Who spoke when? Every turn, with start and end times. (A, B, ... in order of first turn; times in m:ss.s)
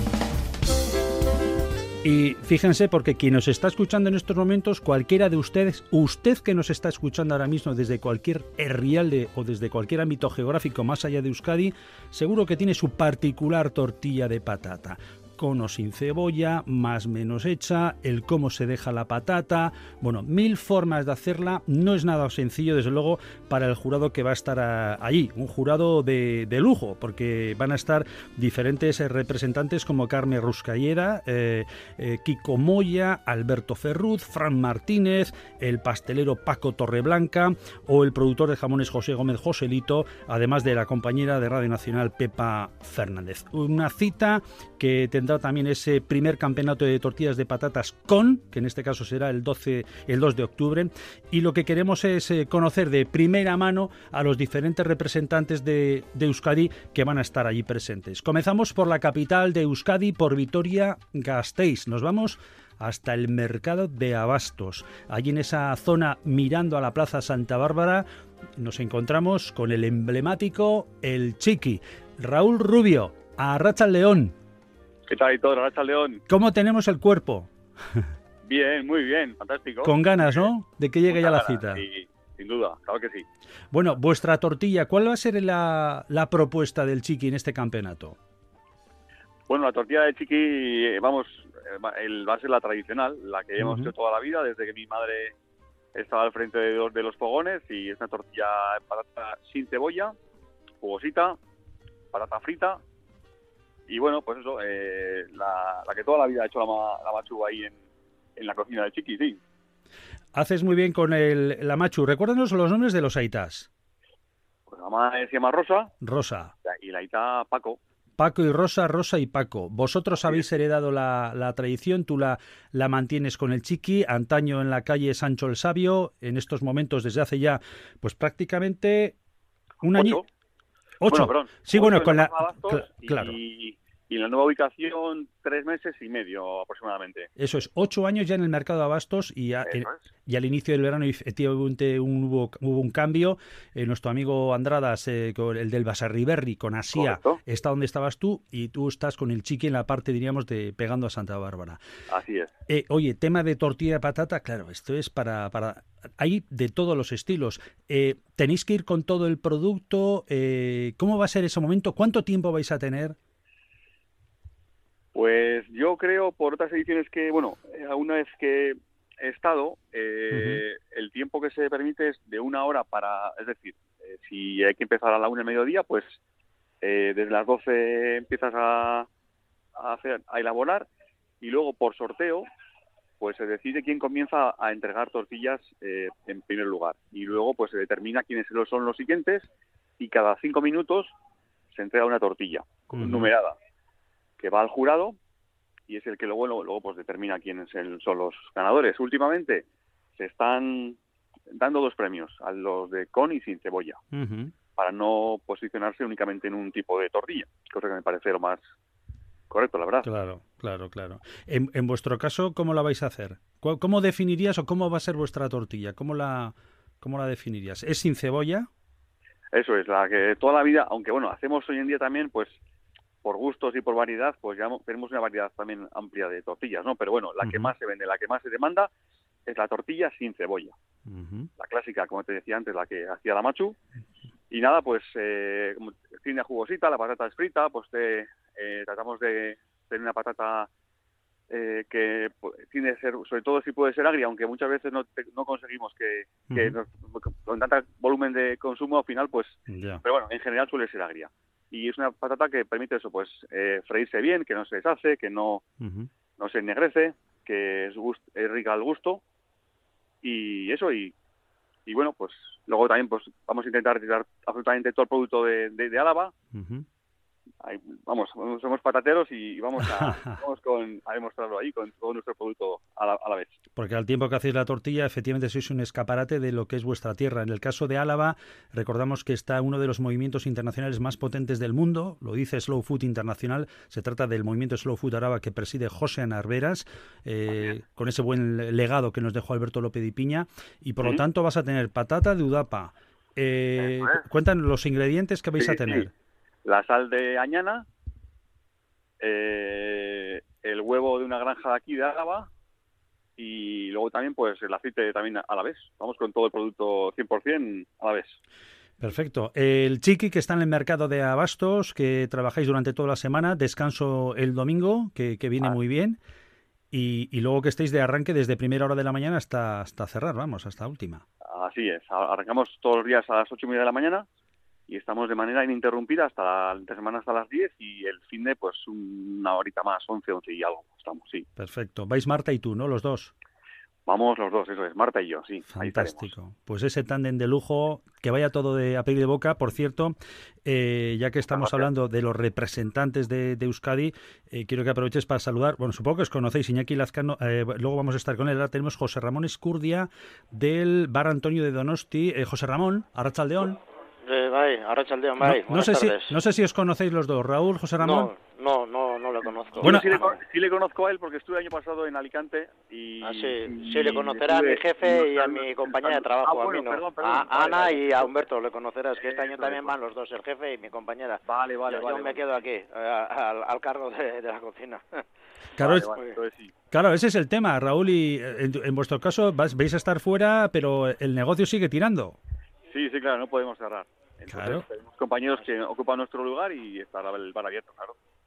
0:02.0-1:08.0 A
1:08.6-1:14.3 A
1:15.1-1:16.2 B
1:16.3-1:18.1 A
1:18.4-1:20.5 B
1:19.8-1:21.8 A
1:21.1-1:23.2 B
1:23.7-1:28.2 A
1:29.5-1:35.4 B
1:33.6-1:33.9 A
1:36.0-1:40.2 B
1:40.8-1:41.4 B
1:42.1-1:42.8 B
1:43.9-1:47.8 B
1:48.4-1:49.4 B
1:50.4-1:53.7 A
1:54.7-1:55.9 B
1:56.0-1:56.5 A
1:56.7-1:57.8 B
1:58.2-2:09.2 A
2:09.8-2:10.2 A
2:09.9-2:10.3 B
2:11.0-2:13.4 A
2:11.0-2:17.3 B
2:17.4-2:31.8 A
2:19.7-2:20.0 B
2:26.9-2:27.4 B
2:32.1-2:32.5 B
2:32.7-2:43.2 A
2:45.2-2:56.2 B
2:50.3-2:50.6 A
2:56.8-2:59.1 B
2:59.8-3:00.9 B
3:01.4-3:02.4 B
3:03.2-3:09.5 B
3:10.0-3:11.1 B
3:11.7-3:13.6 B
3:12.9-3:13.3 A
3:14.4-3:15.2 B
3:15.9-3:19.7 B
3:20.2-3:24.0 B
3:24.1-3:24.5 A
3:24.8-3:28.6 B
3:29.5-3:30.1 B
3:30.0-3:38.7 A
3:39.5-3:42.6 B
3:43.2-3:48.9 B
3:47.4-3:47.7 A
3:49.5-3:50.8 B
3:51.1-3:51.5 A
3:51.6-3:53.8 B
3:54.5-4:00.7 B
4:01.5-4:15.6 B
4:06.5-4:06.8 A
4:09.7-4:10.0 A
4:15.8-4:16.1 A
4:16.4-4:19.2 B
4:20.2-4:21.1 B
4:21.9-4:26.3 B
4:26.5-4:26.9 A
4:27.6-4:33.6 B
4:29.8-4:30.3 A
4:33.8-4:56.1 A
4:53.8-4:54.2 B
4:55.6-4:56.1 B
4:56.6-4:57.9 B
4:59.2-5:02.5 B
5:03.4-5:08.4 B
5:09.0-5:16.2 A
5:16.9-5:21.2 A
5:21.5-5:24.3 B
5:24.9-5:31.5 B
5:31.6-5:33.3 A
5:34.1-5:36.3 B
5:35.7-5:53.8 A
5:41.5-5:41.8 B
5:54.2-5:56.4 C
5:55.4-5:58.3 A
5:58.0-6:00.3 C
5:59.8-6:08.4 B
5:59.8-6:00.3 A
6:03.2-6:15.2 C
6:09.2-6:10.0 B
6:11.4-6:12.5 B
6:15.8-6:16.7 B
6:15.8-6:16.0 A
6:15.8-6:16.4 C
6:16.9-6:22.4 A
6:22.9-6:28.2 B
6:24.5-6:24.8 A